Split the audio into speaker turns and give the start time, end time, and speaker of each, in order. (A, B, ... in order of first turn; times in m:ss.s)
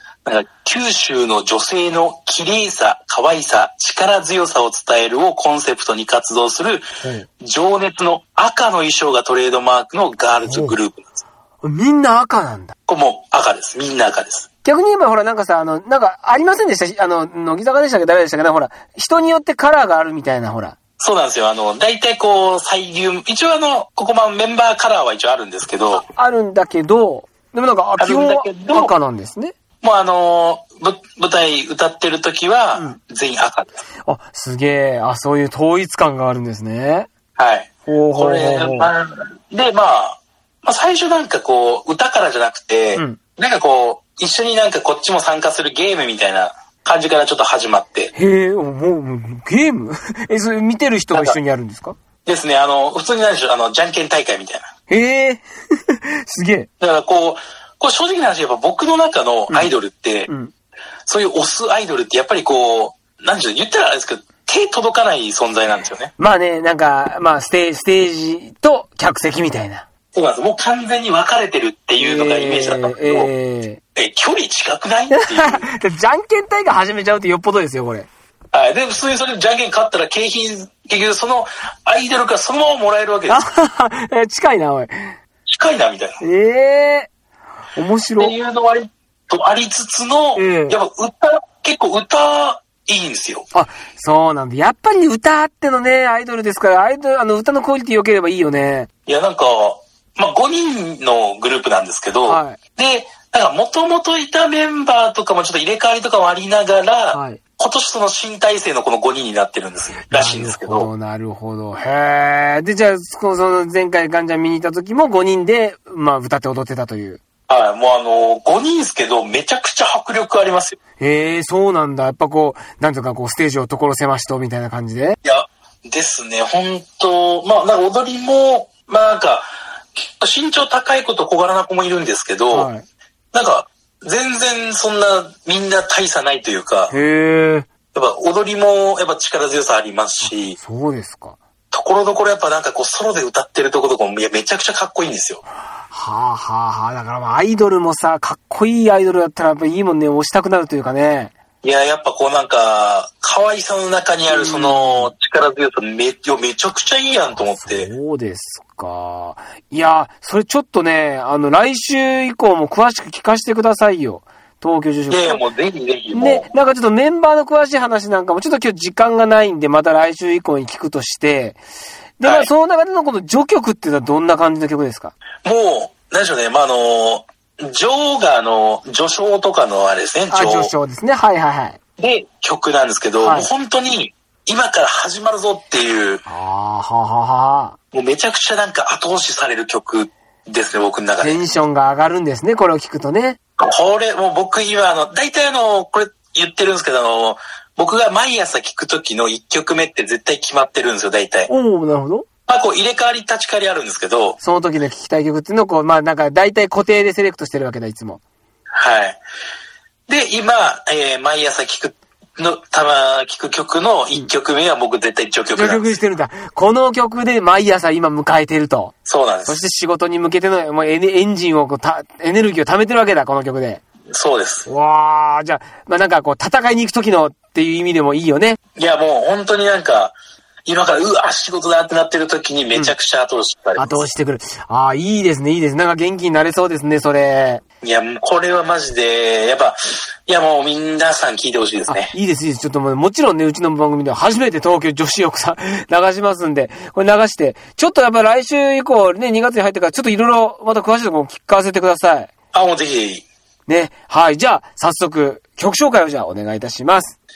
0:00.2-0:06.9 A
0:07.0-0:07.3 B
0:07.4-0:11.2 A
0:10.4-0:10.8 B
0:11.6-0:12.8 B
0:12.9-0:14.5 A
0:14.6-0:20.8 B
0:21.0-0:26.1 A
0:25.9-0:29.5 B
0:28.0-0:28.9 A
0:29.8-0:33.8 A
0:34.1-0:37.1 B
0:37.4-0:48.1 A
0:37.9-0:38.9 B
0:48.2-0:52.0 B
0:51.1-0:51.4 A
0:52.3-0:54.7 A
0:54.9-0:56.7 B
0:56.8-1:00.3 A
1:01.1-1:06.1 A
1:06.2-1:09.9 B
1:10.1-1:13.3 A
1:12.0-1:13.8 B
1:14.0-1:15.7 A
1:15.1-1:18.1 B
1:18.5-1:23.5 A
1:23.3-1:25.2 B
1:25.5-1:26.2 A
1:26.2-1:27.1 B
1:27.8-1:28.4 B
1:28.2-1:33.5 A
1:30.4-1:30.8 B
1:33.5-1:38.9 B
1:39.1-1:50.9 A
1:42.2-1:42.6 B
1:47.1-1:47.4 B
1:50.1-1:57.2 B
1:57.5-2:00.8 A
2:01.0-2:05.2 B
2:05.2-2:12.7 A
2:12.5-2:12.8 B
2:13.3-2:16.9 A
2:16.9-2:17.7 B
2:17.9-2:20.6 A
2:20.2-2:21.4 B
2:21.7-2:25.4 A
2:25.9-2:31.3 B
2:31.6-2:37.9 A
2:34.3-2:35.1 B
2:37.4-2:45.4 B
2:45.1-2:46.5 A
2:46.1-2:51.6 B
2:52.2-2:55.1 B
2:52.2-2:52.5 A
2:55.4-3:00.7 A
3:00.3-3:01.8 B
3:02.0-3:06.2 A
3:03.2-3:03.5 B
3:06.3-3:07.8 B
3:07.9-3:11.4 A
3:11.2-3:13.4 B
3:13.6-3:21.5 A
3:21.5-3:22.3 B
3:22.5-3:24.4 A
3:24.4-3:28.2 B
3:28.7-3:29.2 A
3:30.1-3:36.0 A
3:35.6-3:39.0 B
3:39.0-3:39.6 A
3:39.5-3:43.8 B
3:44.1-3:44.7 A
3:44.7-3:48.6 B
3:48.8-3:50.2 A
3:50.7-3:54.1 A
3:53.8-3:57.6 B
3:57.8-4:02.1 A
4:01.9-4:12.3 B
4:12.5-4:13.3 A
4:13.7-4:17.2 B